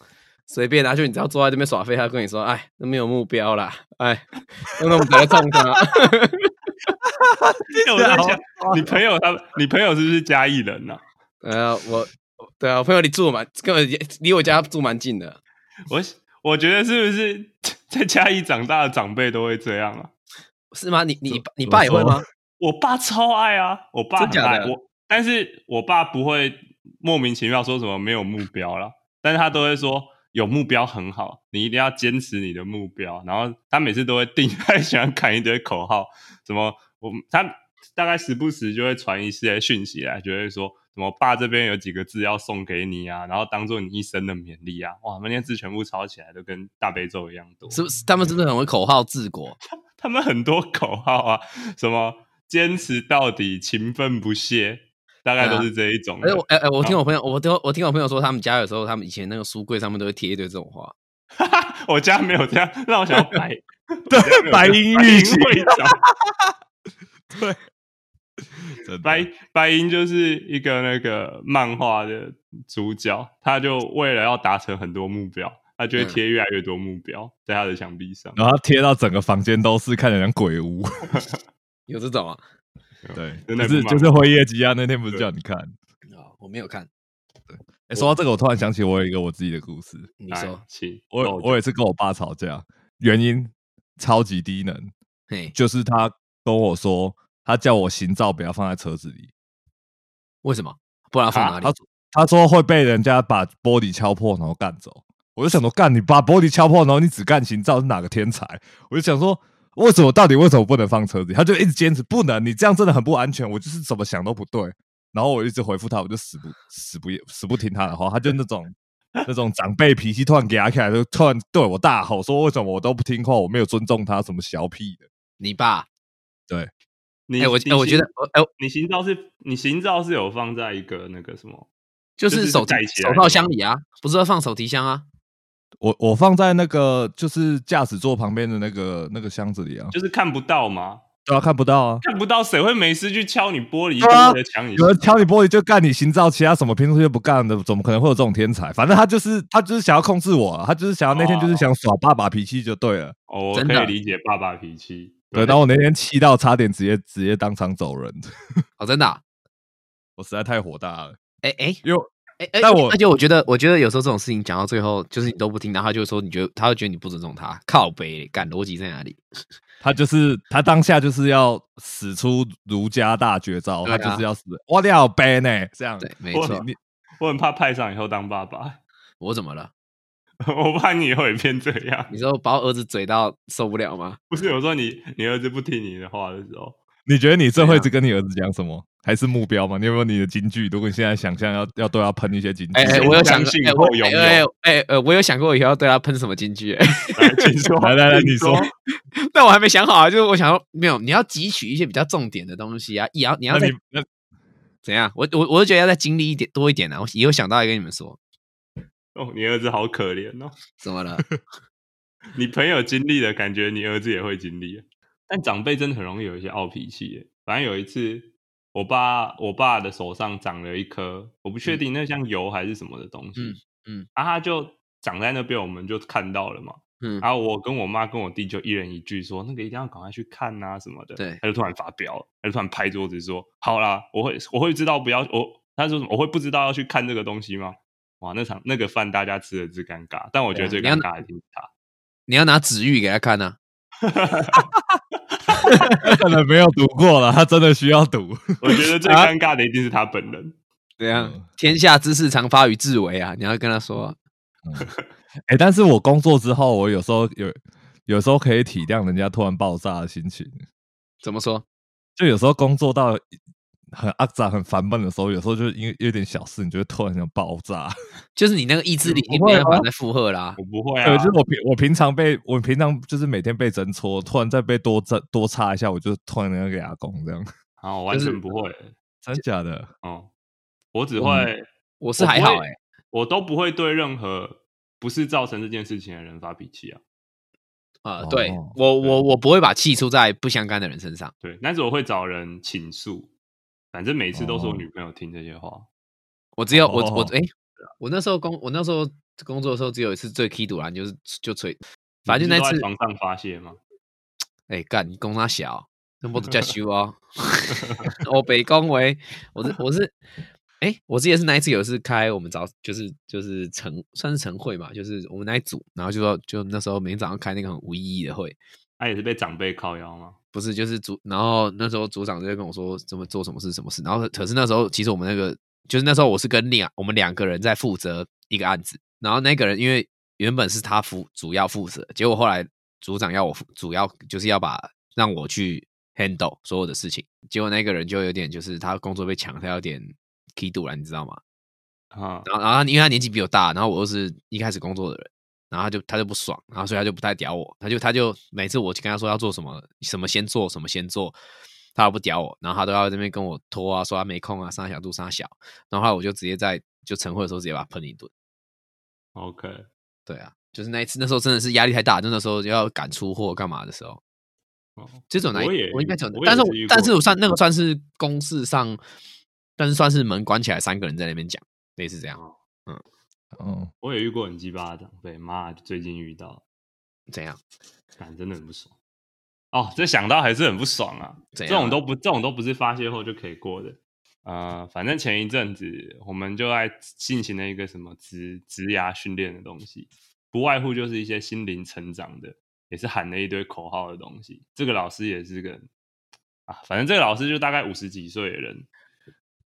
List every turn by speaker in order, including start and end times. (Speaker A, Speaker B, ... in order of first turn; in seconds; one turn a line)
Speaker A: 0.5-6.5
Speaker B: 7.3-8.9
Speaker C: 7.7-11.0
Speaker A: 11.4-15.4
Speaker C: 15.9-20.1
Speaker A: 20.7-22.2
Speaker B: 21.3-22.2
Speaker C: 22.6-47.9
Speaker A: 24.2-24.7
Speaker A: 47.7-49.6
Speaker C: 50.0-57.0
Speaker A: 55.4-55.7
Speaker A: 56.2-60.9
Speaker C: 61.4-66.0
Speaker B: 64.1-65.9
Speaker B: 67.3-67.6
Speaker B: 68.8-69.3
Speaker C: 69.0-78.4
Speaker B: 78.3-81.2
Speaker A: 81.9-82.4
Speaker C: 83.0-84.3
Speaker B: 83.1-85.7
Speaker A: 86.1-86.9
Speaker B: 87.9-90.1
Speaker A: 90.2-90.6
Speaker C: 90.3-91.6
Speaker B: 91.1-94.9
Speaker A: 95.3-95.5
Speaker B: 95.5-99.3
Speaker A: 100.4-101.8
Speaker C: 101.3-101.6
Speaker B: 101.6-125.0
Speaker A: 125.4-125.9
Speaker C: 127.3-131.7
Speaker A: 127.4-128.5
Speaker A: 132.2-135.0
Speaker C: 132.3-133.5
Speaker B: 135.8-139.9
Speaker C: 139.9-141.0
Speaker B: 141.2-142.0
Speaker C: 142.0-144.9
Speaker B: 144.0-153.1
Speaker C: 151.1-151.7
Speaker C: 153.3-155.6
Speaker A: 153.5-153.9
Speaker B: 155.3-158.3
Speaker A: 158.8-159.2
Speaker B: 160.2-161.2
Speaker A: 161.4-161.8
Speaker B: 161.8-163.0
Speaker A: 162.4-169.2
Speaker B: 169.8-176.7
Speaker A: 173.8-174.2
Speaker A: 176.0-176.7
Speaker C: 176.3-176.6
Speaker C: 177.2-178.8
Speaker A: 179.2-179.7
Speaker C: 180.4-182.1
Speaker A: 182.1-184.2
Speaker C: 184.3-186.8
Speaker B: 187.1-193.3
Speaker A: 187.6-187.9
Speaker A: 192.7-197.4
Speaker C: 192.8-194.5
Speaker C: 197.1-198.7
Speaker B: 197.8-198.7
Speaker A: 199.2-203.7
Speaker B: 203.5-204.1
Speaker A: 204.8-208.2
Speaker C: 209.1-210.5
Speaker A: 210.8-211.2
Speaker C: 212.3-223.6
Speaker A: 223.3-224.1
Speaker C: 224.1-241.7
Speaker A: 227.0-227.2
Speaker A: 240.5-241.0
Speaker A: 242.3-243.6
Speaker C: 244.0-244.6
Speaker A: 245.6-246.1
Speaker B: 246.0-248.8
Speaker C: 248.6-250.5
Speaker A: 249.0-249.3
Speaker A: 251.0-254.2
Speaker B: 251.1-251.4
Speaker B: 255.5-260.6
Speaker A: 261.2-261.6
Speaker B: 262.2-263.2
Speaker B: 263.9-267.9
Speaker A: 268.4-270.6
Speaker C: 269.0-269.3
Speaker B: 269.3-269.9
Speaker C: 270.6-271.3
Speaker B: 271.0-277.4
Speaker C: 277.8-278.9
Speaker A: 278.1-278.4
Speaker B: 279.2-279.9
Speaker C: 280.0-280.3
Speaker C: 280.9-281.7
Speaker B: 281.2-281.5
Speaker A: 282.0-282.7
Speaker C: 282.2-287.0
Speaker A: 288.0-291.3
Speaker B: 288.2-288.7
Speaker C: 291.4-293.3
Speaker C: 293.9-295.9
Speaker B: 294.3-294.9
Speaker A: 296.6-302.9
Speaker B: 296.7-297.3
Speaker C: 302.2-303.8
Speaker A: 304.7-310.2
Speaker A: 310.8-318.6
Speaker C: 319.0-320.4
Speaker A: 320.5-341.4
Speaker C: 342.1-342.4
Speaker A: 342.4-351.4
Speaker A: 351.9-358.3
Speaker C: 359.3-359.9
Speaker A: 360.3-364.2
Speaker C: 365.0-367.2
Speaker A: 365.3-369.0
Speaker A: 369.8-373.0
Speaker B: 373.5-373.9
Speaker C: 374.0-376.6
Speaker A: 377.3-377.6
Speaker C: 378.2-378.9
Speaker C: 379.7-395.9
Speaker A: 381.5-382.0
Speaker C: 396.7-398.9